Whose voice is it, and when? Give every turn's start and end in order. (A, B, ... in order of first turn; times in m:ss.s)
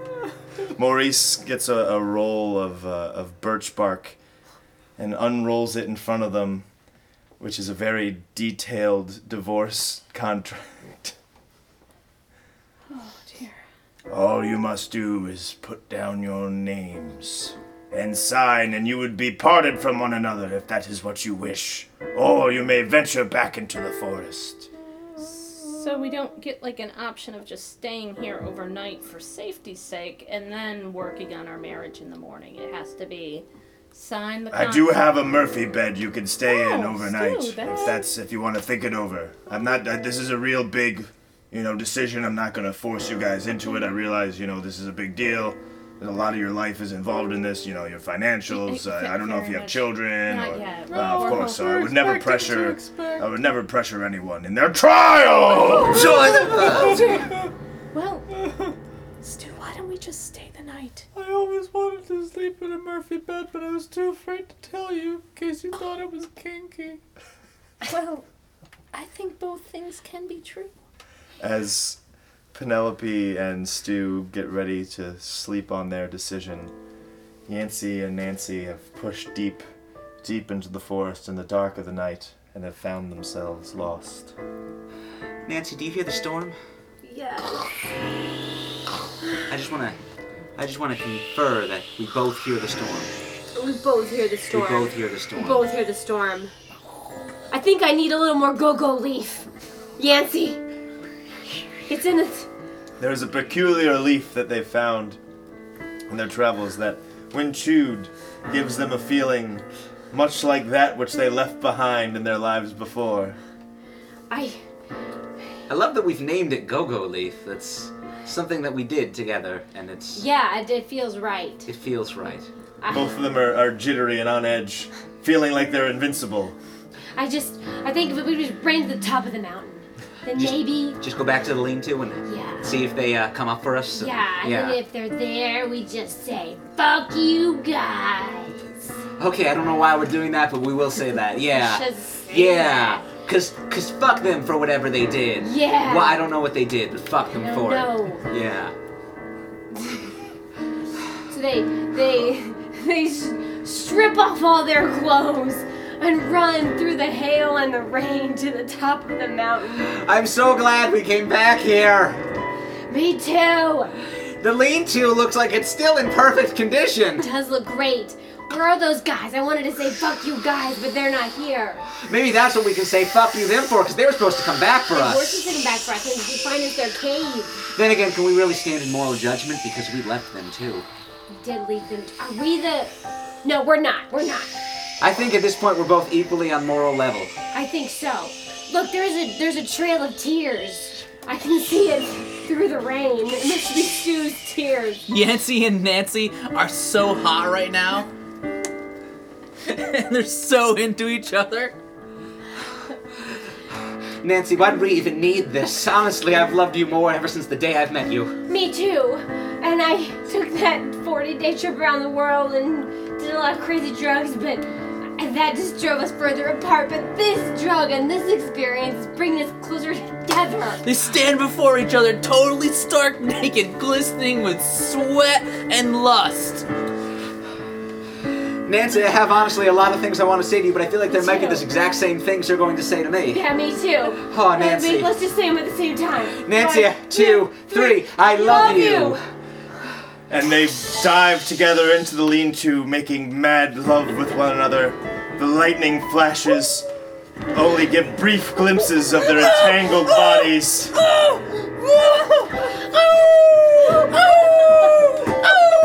0:00.7-0:04.2 A
0:05.0-0:06.6 A
0:07.4-0:11.1 A
0:12.9-0:13.6 B
0:14.1-0:24.7 A
0:25.2-0:34.9 B
0:34.5-0:56.3 A
0:36.5-0:38.0 B
0:48.5-0:51.6 B
0:50.6-0:53.3 C
0:55.5-0:57.4 B
0:55.7-0:57.3 D
0:55.9-0:57.5 C
0:57.9-0:58.3 B
0:58.3-0:58.8 C
0:59.2-1:01.1 B
1:01.1-1:07.0 C
1:07.8-1:08.2 B
1:08.9-1:10.7 B
1:11.4-1:12.0 A
1:12.5-1:16.7 A
1:17.5-1:19.6 A
1:20.2-1:24.3 A
1:25.4-1:26.6 D
1:27.0-1:27.7 E
1:29.5-1:30.0 D
1:30.6-1:33.1 D
1:33.5-1:36.5 E
1:34.5-1:35.6 D
1:37.5-1:40.6 E
1:41.9-1:42.5 E
1:43.0-1:45.2 A
1:46.1-1:53.4 A
1:54.3-1:54.6 E
1:55.7-2:00.2 D
2:00.1-2:01.7 E
2:01.6-2:02.5 D
2:02.8-2:03.1 E
2:02.9-2:06.6 A
2:07.1-2:11.0 E
2:10.3-2:14.8 D
2:12.2-2:12.8 E
2:13.9-2:18.9 E
2:19.2-2:28.7 D
2:21.5-2:23.0 E
2:25.4-2:26.2 E
2:27.3-2:28.3 E
2:31.3-2:39.9 E
2:39.8-2:42.2 D
2:42.9-2:43.9 E
2:44.4-2:47.3 D
2:47.2-2:51.8 E
2:52.0-2:55.4 D
2:54.9-2:57.6 E
2:57.7-3:00.8 D
3:01.3-3:02.9 E
3:03.4-3:04.5 E
3:05.0-3:07.3 D
3:07.5-3:15.0 E
3:15.1-3:18.1 F
3:19.6-3:21.8 F
3:24.2-3:28.4 D
3:28.5-3:40.8 E
3:40.8-3:46.7 F
3:48.6-3:53.4 D
3:51.1-3:51.6 E
3:53.3-3:59.2 E
3:54.2-3:55.1 D
3:56.4-3:59.2 D
4:00.3-4:06.9 A
4:07.5-4:11.0 A
4:11.2-4:12.7 C
4:13.8-4:14.6 C
4:13.9-4:15.3 B